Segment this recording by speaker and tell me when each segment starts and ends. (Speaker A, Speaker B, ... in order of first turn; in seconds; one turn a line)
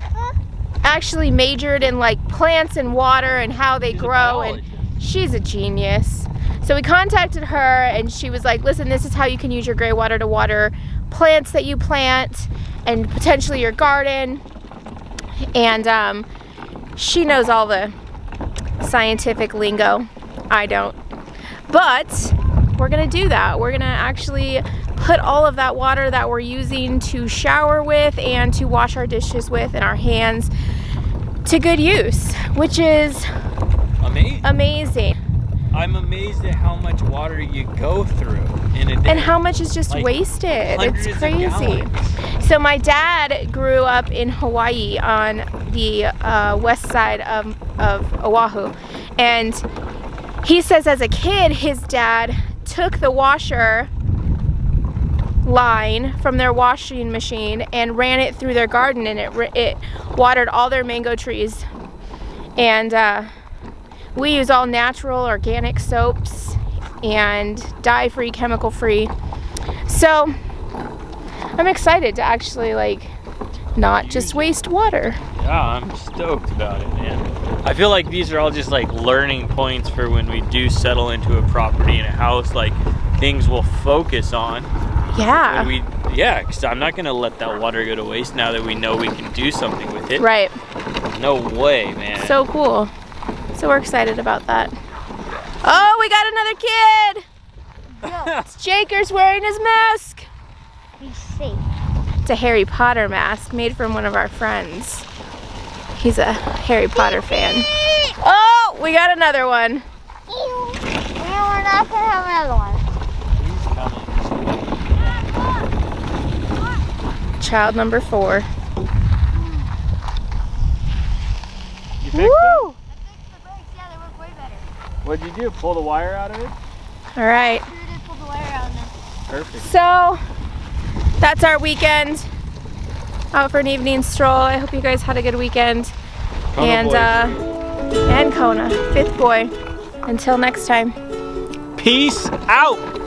Speaker A: 0.8-14.4
Speaker B: 3.9-4.9
Speaker A: 15.6-16.3
Speaker A: 17.0-17.9
Speaker A: 18.8-21.0
Speaker A: 21.7-30.5
Speaker A: 31.4-33.3
Speaker B: 34.0-34.5
Speaker A: 34.4-35.2
Speaker B: 35.7-42.0
Speaker A: 39.0-49.6
Speaker A: 50.4-53.9
Speaker A: 55.4-61.7
Speaker A: 62.6-63.3
Speaker A: 64.1-69.1
Speaker A: 69.9-70.4
Speaker A: 71.6-73.2
Speaker A: 73.8-75.2
Speaker B: 73.8-74.6
Speaker B: 75.2-84.7
Speaker A: 85.1-85.7
Speaker B: 85.2-90.2
Speaker A: 90.2-90.6
Speaker B: 91.1-92.4
Speaker A: 92.2-92.9
Speaker A: 93.5-94.7
Speaker B: 95.3-95.9
Speaker A: 95.6-97.2
Speaker B: 98.0-98.5
Speaker A: 98.4-100.3
Speaker C: 101.0-101.6
Speaker A: 102.2-105.1
Speaker A: 106.0-109.8
Speaker C: 110.3-112.8
Speaker B: 113.4-114.8
Speaker C: 115.0-115.7
Speaker A: 117.4-118.5
Speaker B: 122.0-122.7
Speaker C: 122.1-124.7
Speaker B: 125.0-126.5
Speaker A: 127.2-127.7
Speaker C: 127.6-128.9
Speaker B: 129.3-129.7
Speaker A: 129.6-130.2
Speaker A: 131.2-132.3
Speaker A: 133.3-135.9
Speaker B: 136.5-137.4
Speaker A: 136.6-137.4
Speaker A: 138.1-139.5
Speaker A: 140.1-140.9
Speaker B: 141.8-142.8